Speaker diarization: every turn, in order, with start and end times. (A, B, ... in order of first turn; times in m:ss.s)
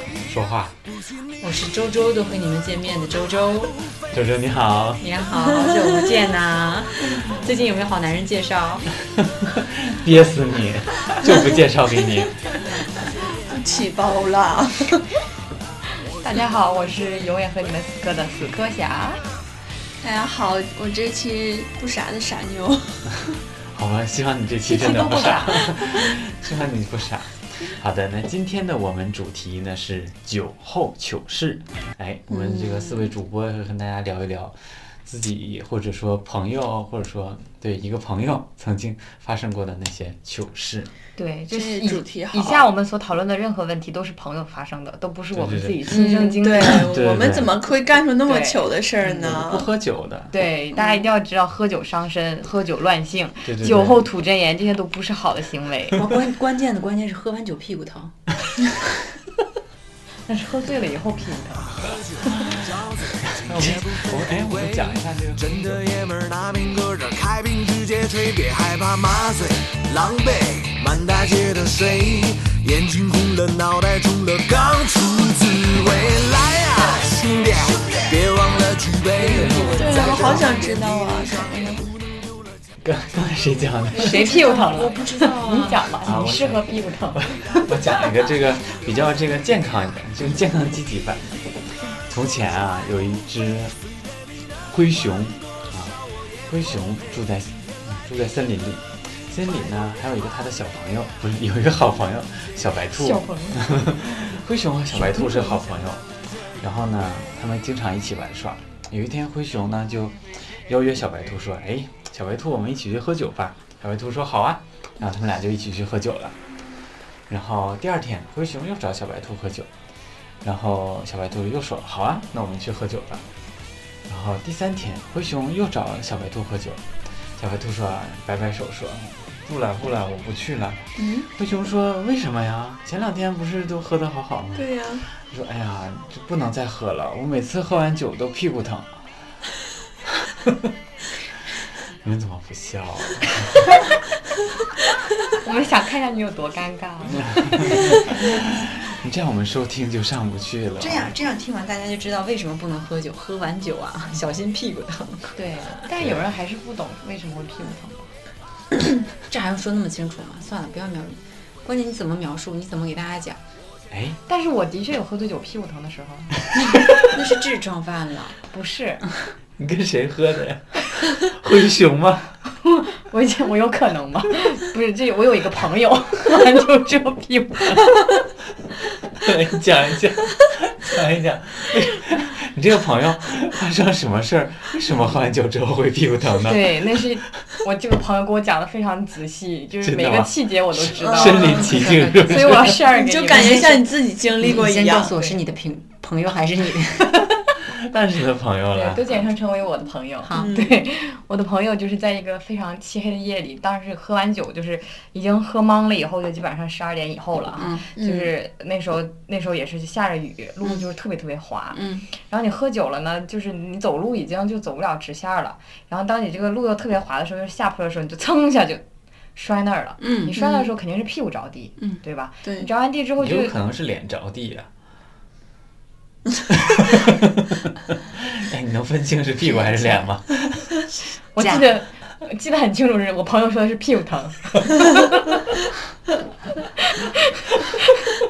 0:00.2-0:00.8 A
0:01.4-0:03.7 B
0:04.1-0:05.0 A
0:05.0-0:08.9 B
0:09.4-0:12.4 A
0:13.4-0:15.1 C
0:16.1-0:19.2 D
0:20.0-0:23.2 C
0:23.7-0:40.9 A
0:24.7-0:25.7 D
0:32.3-0:33.1 C
0:41.2-0:46.9 D
0:41.5-0:42.7 C
0:45.3-0:45.9 A
0:45.9-0:49.7 C
0:46.6-0:47.6 A
0:48.2-0:48.7 D
0:49.0-0:50.3 A
0:50.3-0:56.0 D
0:53.4-0:54.0 A
0:55.9-0:58.2 B
1:00.3-1:02.0 D
1:01.8-1:22.2 E
1:03.3-1:05.8 A
1:19.4-1:20.6 A
1:19.7-1:22.0 C
1:22.8-1:24.2 A
1:23.9-1:27.7 D
1:23.9-1:25.9 B
1:26.0-1:33.7 A
1:34.7-1:46.0 A
1:43.0-1:43.7 D
1:46.6-1:56.4 A
1:57.3-1:59.7 A
2:00.4-2:03.3 A
2:04.1-2:06.8 A
2:07.4-2:19.0 A
2:11.0-2:11.3 C
2:14.5-2:15.1 C
2:20.2-2:20.5 A
2:22.0-2:23.8 A
2:25.4-2:28.1 D
2:27.1-2:31.1 A
2:30.8-2:35.5 B
2:35.4-2:38.1 D
2:39.2-2:43.4 B
2:43.9-2:44.2 A
2:44.3-2:46.5 D
2:46.5-2:48.4 B
2:48.5-2:49.0 D
2:49.6-2:52.4 A
2:52.6-2:58.0 D
2:59.2-3:06.8 A
3:06.4-3:13.9 D
3:09.8-3:12.7 A
3:11.0-3:11.7 C
3:11.2-3:12.7 B
3:12.9-3:15.1 C
3:13.3-3:13.7 B
3:14.4-3:17.5 B
3:17.7-3:19.2 A
3:18.7-3:38.8 D
3:20.2-3:20.5 B
3:20.3-3:20.8 C
3:27.6-3:27.8 B
3:27.9-3:28.3 C
3:39.3-3:43.5 D
3:40.0-3:40.4 B
3:42.4-3:42.7 C
3:43.2-3:44.7 A
3:46.6-3:50.7 A
3:49.5-3:50.0 B
3:51.3-3:55.4 D
3:51.4-3:51.6 B
3:56.8-3:58.1 D